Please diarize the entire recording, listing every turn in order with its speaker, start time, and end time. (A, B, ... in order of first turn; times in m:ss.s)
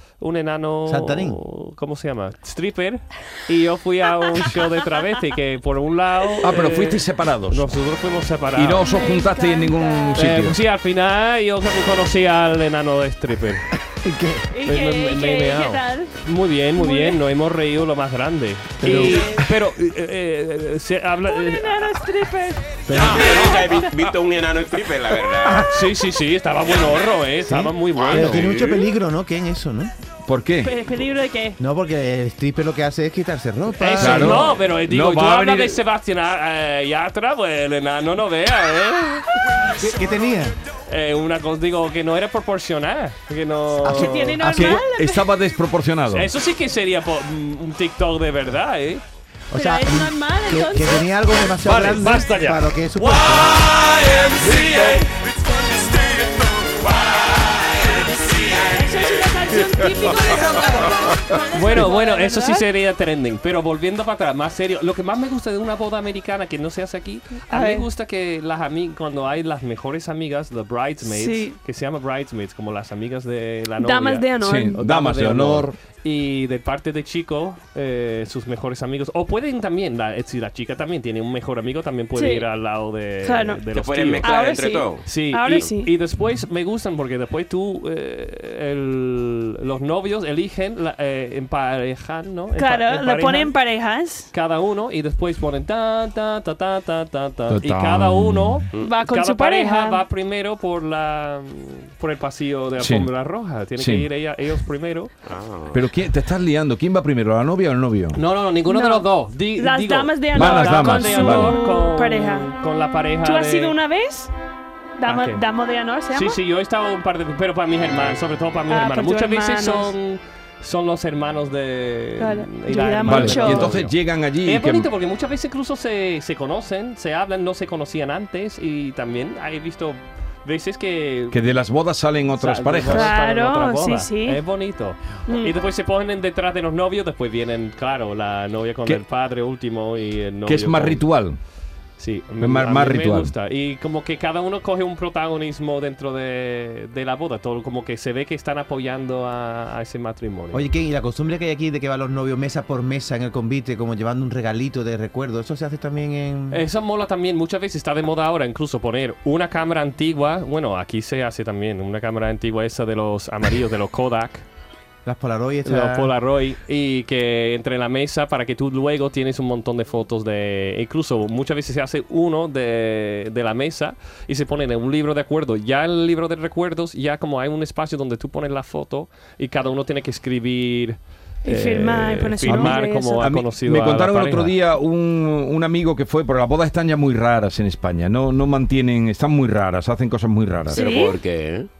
0:00.2-0:08.9 A
0:00.8-0:01.4 B
0:06.4-0:07.7 C
0:08.5-0:10.6 C
0:08.8-0:10.3 D
0:10.1-0:13.7 A
0:14.0-0:14.5 B
0:14.5-0:16.2 D
0:14.6-0:21.9 A
0:16.7-0:17.2 D
0:18.8-0:19.2 B
0:18.8-0:19.4 D
0:21.3-0:24.1 D
0:22.8-0:23.5 B
0:22.9-0:25.8 E
0:25.4-0:25.8 B
0:25.7-0:28.5 A
0:27.4-0:29.9 B
0:27.9-0:28.9 E
0:30.2-0:30.7 C
0:30.6-0:31.6 D
0:31.6-0:34.5 B
0:33.8-0:39.7 A
0:34.0-0:35.8 C
0:39.8-0:40.6 B
0:40.9-0:44.8 A
0:43.8-0:45.2 D
0:44.4-0:46.3 C
0:46.1-0:49.0 A
0:49.5-0:53.7 B
0:49.5-0:51.0 D
0:51.6-0:55.1 C
0:54.3-0:55.0 A
0:57.8-1:02.6 D
0:59.6-1:00.7 C
1:01.5-1:24.3 A
1:07.5-1:07.9 D
1:11.0-1:11.5 D
1:13.8-1:14.8 D
1:14.4-1:15.8 C
1:22.1-1:22.5 D
1:23.2-1:23.6 D
1:23.7-1:25.7 E
1:24.2-1:25.9 D
1:25.0-1:33.5 A
1:32.6-1:34.3 D
1:34.3-1:45.1 A
1:37.5-1:38.6 C
1:38.8-1:40.0 D
1:42.8-1:43.1 C
1:43.7-1:44.1 C
1:45.2-1:45.8 E
1:45.7-1:48.2 C
1:48.2-1:53.8 A
1:48.7-1:52.5 D
1:50.3-1:51.6 C
1:53.2-1:54.3 D
1:55.0-1:56.4 D
1:55.1-1:55.4 A
1:56.1-2:11.4 A
1:58.7-1:59.9 D
2:02.2-2:03.8 D
2:03.0-2:04.9 C
2:11.3-2:13.1 C
2:12.3-2:21.0 A
2:12.9-2:14.4 D
2:15.2-2:15.6 D
2:20.4-2:21.4 C
2:22.0-2:30.6 A
2:22.4-2:23.3 C
2:30.5-2:36.6 B
2:36.5-2:44.4 A
2:45.0-2:46.1 B
2:45.6-3:04.6 A
3:01.4-3:03.3 D
3:02.4-3:11.0 C
3:10.7-3:11.2 D
3:10.7-3:11.7 E